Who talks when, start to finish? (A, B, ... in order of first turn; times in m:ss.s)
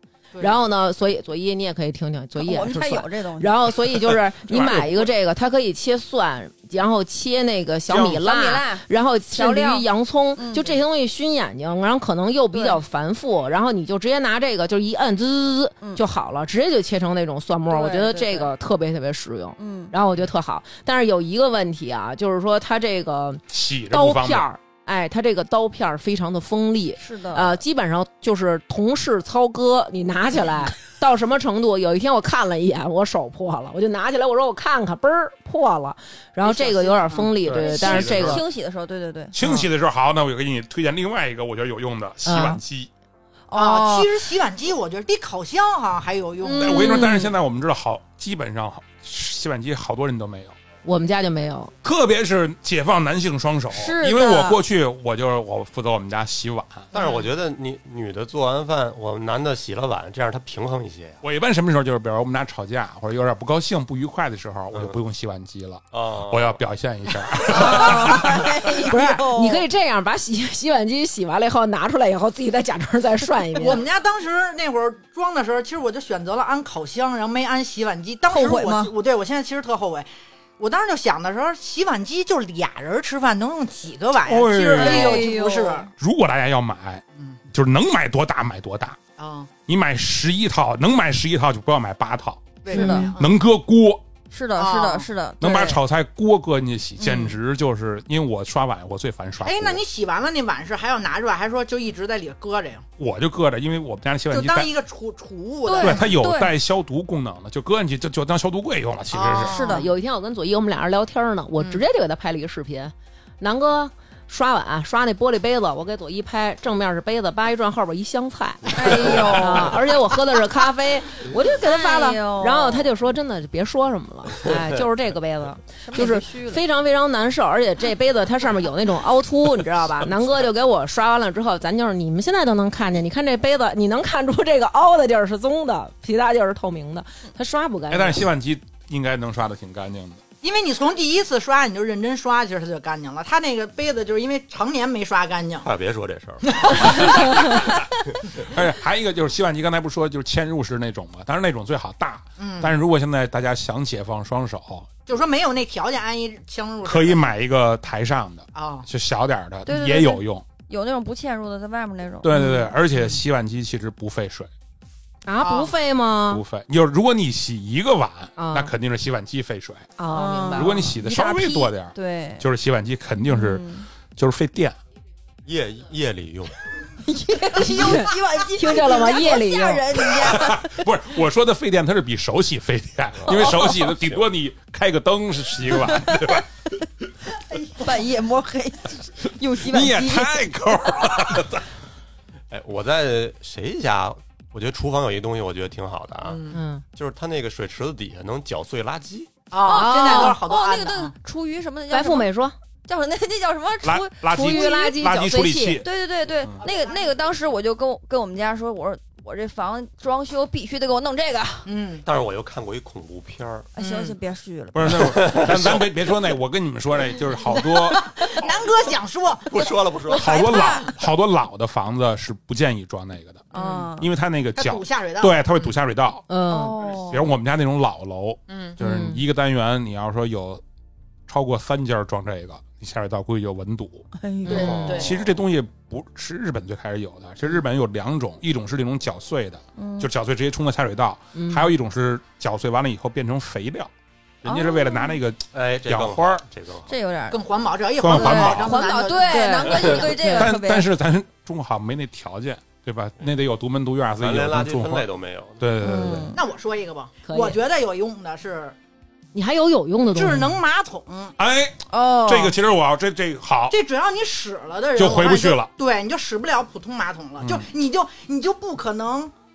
0:00.3-0:00.6 A
0:00.4-0:38.4 B
0:02.4-0:03.8 C
0:04.5-0:05.1 D
0:07.9-0:10.8 C
0:17.7-0:18.5 C
0:19.6-0:19.9 C
0:23.5-0:24.5 D
0:27.0-0:27.6 C
0:36.4-0:37.3 A
0:37.4-0:38.4 D
0:37.5-0:39.3 C
0:39.4-0:42.9 D
0:42.2-0:42.6 B
0:43.5-0:44.2 C
0:43.5-0:46.8 A
0:46.4-0:47.3 C
0:46.6-0:50.6 D
0:46.7-0:47.3 B
0:50.8-0:51.7 B
0:51.8-0:56.9 D
0:53.7-0:54.6 C
0:56.9-1:01.2 E
0:56.9-0:57.2 A
1:01.2-1:08.4 D
1:04.7-1:05.0 E
1:05.9-1:06.6 E
1:07.5-1:09.6 C
1:08.9-1:13.8 B
1:08.9-1:09.2 A
1:13.6-1:25.9 A
1:18.3-1:18.9 C
1:24.2-1:25.3 D
1:24.8-1:25.9 C
1:26.0-1:29.0 D
1:29.2-1:29.5 A
1:29.7-1:34.0 D
1:32.6-1:33.3 A
1:32.7-1:33.1 C
1:32.7-1:33.1 B
1:34.3-1:35.8 C
1:34.6-1:35.1 A
1:35.4-1:39.8 D
1:39.4-1:42.8 A
1:43.0-1:44.7 D
1:44.3-1:46.1 A
1:45.6-1:46.5 C
1:45.8-1:49.6 D
1:49.1-1:49.9 A
1:49.4-1:49.9 C
1:49.7-2:18.2 B
1:58.7-1:59.8 C
2:01.6-2:02.9 C
2:05.8-2:06.6 C
2:17.9-2:20.2 D
2:20.4-2:25.7 A
2:25.6-2:26.8 E
2:26.4-2:27.7 A
2:26.8-2:27.3 D
2:28.5-2:34.9 D
2:32.4-2:32.7 A
2:35.0-2:37.3 A
2:36.8-2:40.4 D
2:38.5-2:38.9 A
2:39.6-2:42.3 C
2:42.2-2:44.5 D
2:42.3-2:42.6 B
2:45.3-2:46.4 B
2:45.4-2:45.7 A
2:46.3-2:49.9 D
2:48.4-2:48.7 B
2:50.0-2:50.9 B
2:50.1-2:52.5 C
2:50.5-2:54.8 D
2:53.3-2:53.9 C
2:55.4-2:56.6 E
2:57.0-3:00.6 C
2:57.6-2:59.8 B
2:57.6-2:58.1 A
3:00.1-3:06.5 D
3:03.2-3:04.3 E
3:03.3-3:03.7 C
3:05.9-3:06.3 C
3:07.5-3:07.9 A
3:07.8-3:10.5 C
3:09.6-3:11.6 D
3:12.5-3:19.4 E
3:16.2-3:16.6 A
3:16.5-3:16.8 B
3:19.5-3:21.1 A
3:19.6-3:22.3 C
3:19.7-3:20.4 B
3:21.9-3:22.6 B
3:22.8-3:25.0 C
3:23.8-3:25.8 D
3:24.3-3:25.8 B
3:25.7-3:31.7 C
3:26.7-3:26.9 A
3:31.6-3:32.0 A
3:32.0-3:33.7 E
3:33.8-3:35.2 C
3:33.8-3:34.2 A
3:34.7-3:38.1 D
3:34.8-3:35.9 E
3:37.6-3:39.7 A
3:39.5-3:40.3 E
3:40.1-3:40.9 C
3:40.1-3:46.2 D
3:43.5-3:43.9 A
3:43.5-3:44.1 C
3:44.6-3:45.7 A
3:46.3-3:46.8 B
3:46.5-3:47.2 C
3:47.1-3:50.6 D
3:48.5-3:48.7 A
3:48.8-3:49.2 B
3:51.3-4:03.9 D
3:54.2-3:55.0 C
3:54.5-3:55.0 B
3:54.5-3:55.2 A
3:59.8-4:00.1 C
4:01.3-4:01.7 B
4:04.4-4:06.4 D
4:04.4-4:05.2 C
4:05.5-4:06.9 E
4:06.9-4:07.4 C
4:07.3-4:09.4 A
4:08.0-4:08.8 D
4:08.0-4:10.9 C
4:09.3-4:10.5 B
4:10.3-4:15.1 D
4:14.2-4:15.7 E
4:15.6-4:16.2 D
4:15.8-4:16.4 C
4:15.8-4:16.3 B
4:16.3-4:18.7 A
4:17.2-4:17.6 B
4:19.3-4:20.6 B
4:20.1-4:21.3 A
4:21.4-4:23.8 D
4:21.9-4:22.6 C
4:23.7-4:29.3 A
4:24.9-4:25.7 D
4:27.4-4:27.7 D